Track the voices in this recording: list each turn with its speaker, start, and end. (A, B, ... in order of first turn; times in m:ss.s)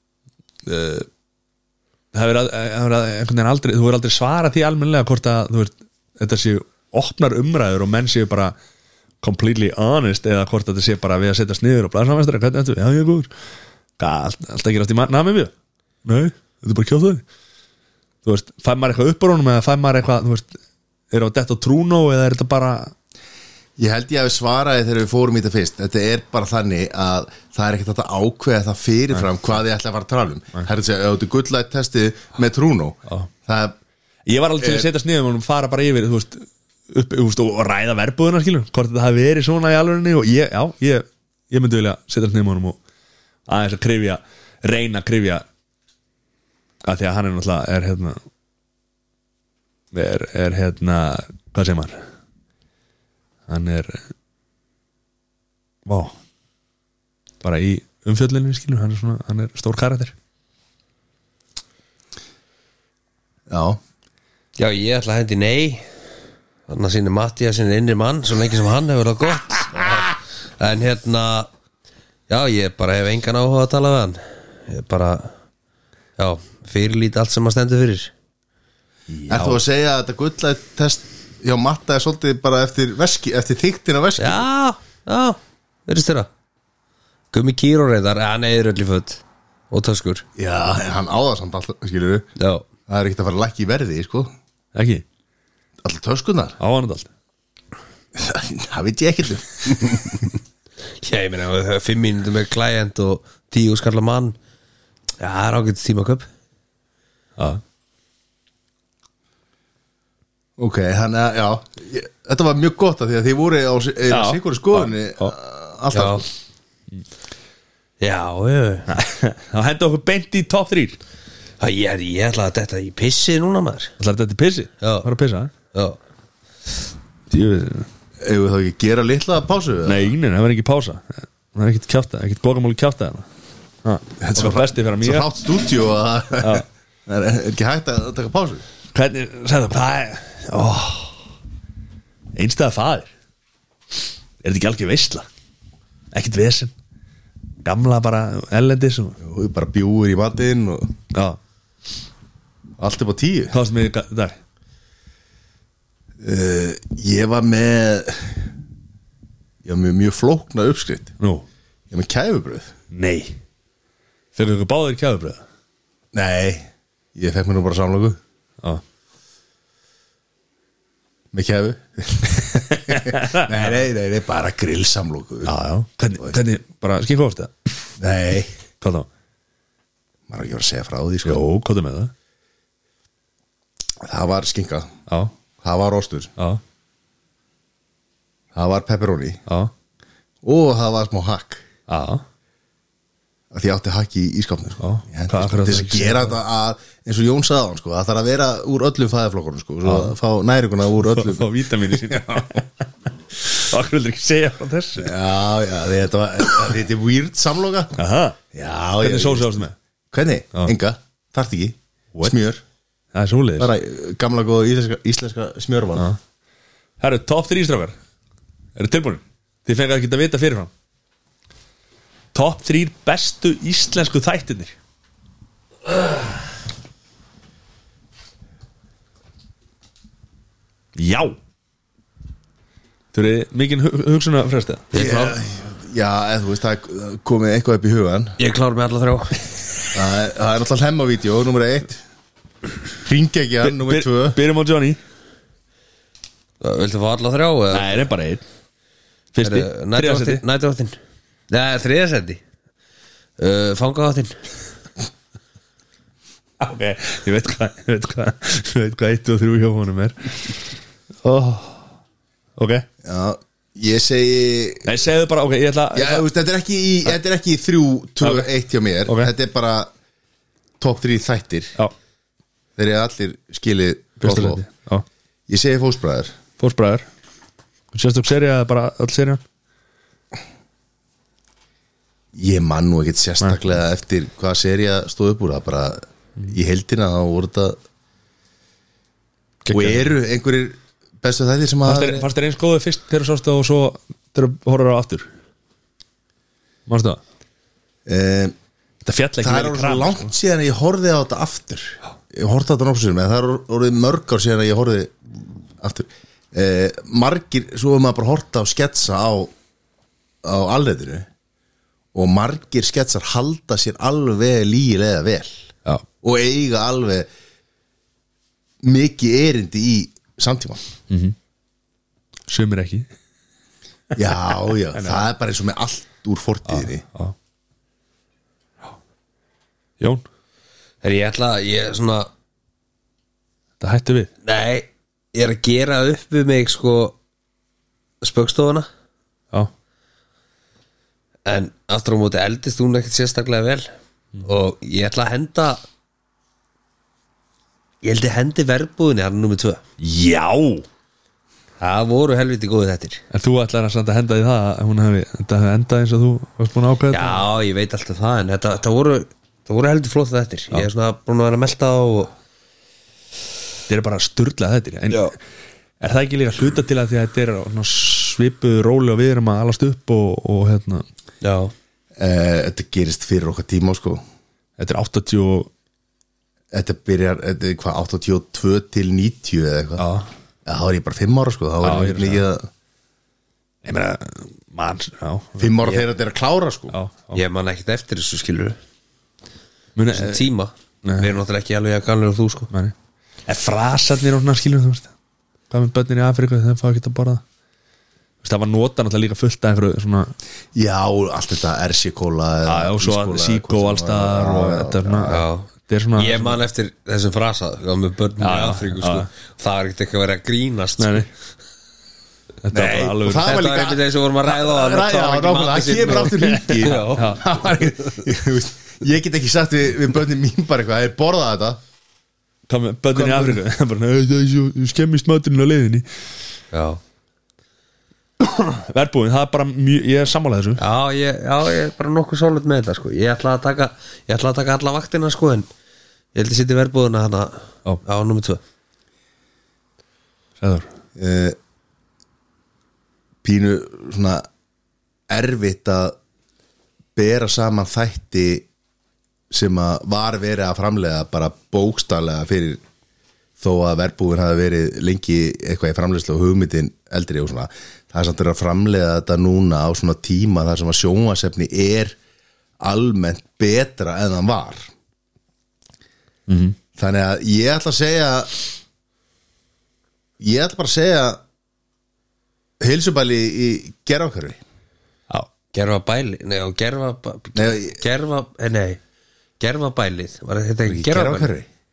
0:00.6-0:01.1 A
0:02.1-0:08.5 A
0:09.2-0:13.3 A
0:14.0-0:15.5 A
0:16.0-0:17.2 A
0:18.2-0:20.6 A
0:21.1-0:22.9 A
0:23.8-0:33.8 B
0:34.2-0:42.8 A
0:34.6-0:34.9 B
0:43.5-0:45.4 A
0:46.8-0:48.2 A
0:49.9-0:52.0 A
0:53.5-0:54.0 A
0:55.9-0:56.1 A
0:57.4-1:00.1 A
1:03.5-1:03.8 B
1:04.6-1:05.9 C
1:06.7-1:11.5 C
1:12.3-1:15.3 C
1:16.2-1:18.1 C
1:19.1-1:19.6 A
1:19.3-1:24.4 B
1:24.2-1:26.3 C
1:27.3-1:30.2 C
1:30.4-1:32.2 B
1:32.4-1:32.7 C
1:32.9-1:34.3 B
1:34.7-1:35.0 A
1:35.8-1:36.6 B
1:36.6-1:37.1 A
1:38.1-1:40.2 B
1:39.8-1:40.2 C
1:41.0-1:44.4 C
1:45.2-1:46.3 C
1:47.4-1:47.6 A
1:50.6-1:56.2 B
1:54.1-1:55.3 A
1:55.9-1:56.2 C
1:58.0-1:58.9 C
1:58.9-2:01.0 A
2:01.6-2:03.9 C
2:04.0-2:05.5 A
2:04.8-2:05.1 C
2:05.7-2:06.0 C
2:07.3-2:07.9 A
2:08.2-2:10.1 B
2:09.9-2:13.2 A
2:13.8-2:15.3 A
2:14.2-2:18.6 B
2:18.9-2:21.2 A
2:22.3-2:23.1 A
2:24.4-2:25.3 A
2:26.1-2:26.7 A
2:27.6-2:29.2 A
2:29.2-2:30.9 B
2:31.1-2:31.4 A
2:32.8-2:33.6 B
2:33.5-2:34.4 A
2:36.2-2:38.5 B
2:39.6-2:41.1 B
2:41.2-2:41.4 A
2:41.9-2:42.7 B
2:42.9-2:43.4 A
2:44.3-2:45.4 A
2:46.1-2:48.2 B
2:51.3-2:55.5 B
2:52.9-2:53.6 A
2:55.4-2:57.5 A
2:58.0-2:58.5 B
2:58.8-2:59.1 A
3:00.3-3:01.4 B
3:01.2-3:02.1 A
3:04.0-3:04.9 B
3:05.6-3:06.3 B
3:08.5-3:09.4 B
3:09.5-3:09.7 A
3:10.4-3:11.6 B
3:11.9-3:12.2 A
3:13.5-3:22.6 B
3:14.8-3:16.3 A
3:19.9-3:20.1 A
3:21.0-3:22.7 A
3:23.3-3:25.1 A
3:25.0-3:28.0 B
3:28.0-3:28.4 A
3:28.5-3:32.6 B
3:29.0-3:29.7 A
3:33.1-3:33.7 A
3:33.6-3:36.1 B
3:37.0-3:38.0 A
3:38.8-3:40.7 A
3:42.3-3:44.7 A
3:51.0-3:51.4 A
3:53.1-3:54.9 A
3:54.9-3:55.4 C
3:54.9-3:58.4 B
3:58.4-3:59.5 C
3:59.9-4:02.0 B
4:03.0-4:04.4 B
4:03.6-4:05.0 A
4:06.6-4:08.0 C
4:07.7-4:08.4 A
4:09.3-4:10.4 A
4:09.4-4:11.0 C
4:11.5-4:12.4 C
4:13.4-4:14.4 C
4:16.6-4:20.7 A
4:21.2-4:21.8 A
4:22.6-4:22.8 A
4:23.0-4:24.9 B
4:24.8-4:26.2 A
4:25.9-4:29.9 B
4:28.2-4:28.5 A
4:29.0-4:29.3 A
4:30.8-4:31.7 B
4:32.8-4:34.6 B
4:34.2-4:35.0 A
4:35.5-4:36.3 B
4:36.6-4:37.0 A
4:37.9-4:39.4 A
4:42.3-4:47.8 B
4:49.6-4:50.1 A
4:49.7-4:52.2 B
4:51.9-4:55.3 A
4:56.9-4:57.2 A
4:58.0-4:58.6 B
4:59.0-5:00.3 A
4:59.4-5:05.1 B
5:05.8-5:09.5 B
5:10.4-5:11.3 B
5:12.1-5:15.7 B
5:16.2-5:17.3 B
5:18.8-5:20.8 B
5:21.1-5:21.3 A
5:22.5-5:23.1 A
5:24.1-5:27.0 B
5:24.9-5:25.2 A
5:26.7-5:27.3 A
5:30.0-5:30.2 A
5:31.0-5:32.3 C
5:33.8-5:34.3 A
5:34.4-5:37.2 C
5:38.2-5:38.9 C
5:41.4-5:43.9 C
5:44.4-5:45.8 C
5:48.0-5:49.8 C
5:50.0-5:50.9 A
5:51.8-5:53.2 C
5:53.3-5:57.4 A
5:57.1-6:02.3 C
6:03.9-6:05.4 A
6:06.0-6:11.0 A
6:11.4-6:11.7 C
6:12.2-6:14.2 B
6:14.8-6:15.7 A
6:16.7-6:20.0 B
6:20.0-6:20.3 A
6:20.6-6:22.7 B
6:21.8-6:22.4 A
6:23.8-6:25.9 A
6:25.6-6:26.9 B
6:26.9-6:27.4 A
6:27.3-6:28.8 C
6:30.0-6:30.4 A
6:30.1-6:32.7 C
6:31.0-6:31.3 A
6:33.5-6:35.1 A
6:35.7-6:37.4 A
6:38.4-6:40.3 A
6:40.7-6:45.4 B
6:42.6-6:46.6 A
6:45.2-6:51.2 C
6:48.4-6:49.3 A
6:51.0-6:51.3 A
6:52.6-6:53.6 A
6:52.7-7:01.8 B
6:53.3-6:57.4 C
6:56.4-6:57.4 A
7:02.7-7:06.0 A
7:03.1-7:03.6 B
7:06.7-7:07.0 C
7:08.5-7:10.8 A
7:10.8-7:15.7 C
7:16.3-7:18.6 C
7:20.6-7:20.9 A
7:21.2-7:21.6 B
7:23.4-7:24.4 B
7:25.3-7:26.2 B
7:27.2-7:28.7 B
7:29.5-7:32.8 B
7:33.6-7:42.2 B
7:42.8-7:44.9 B
7:46.5-7:46.8 A
7:47.0-7:48.6 B
7:50.4-7:51.4 B
7:52.8-7:54.6 B
7:55.7-7:59.0 C
7:57.6-7:58.0 B
7:59.6-8:01.5 C
8:00.9-8:01.7 B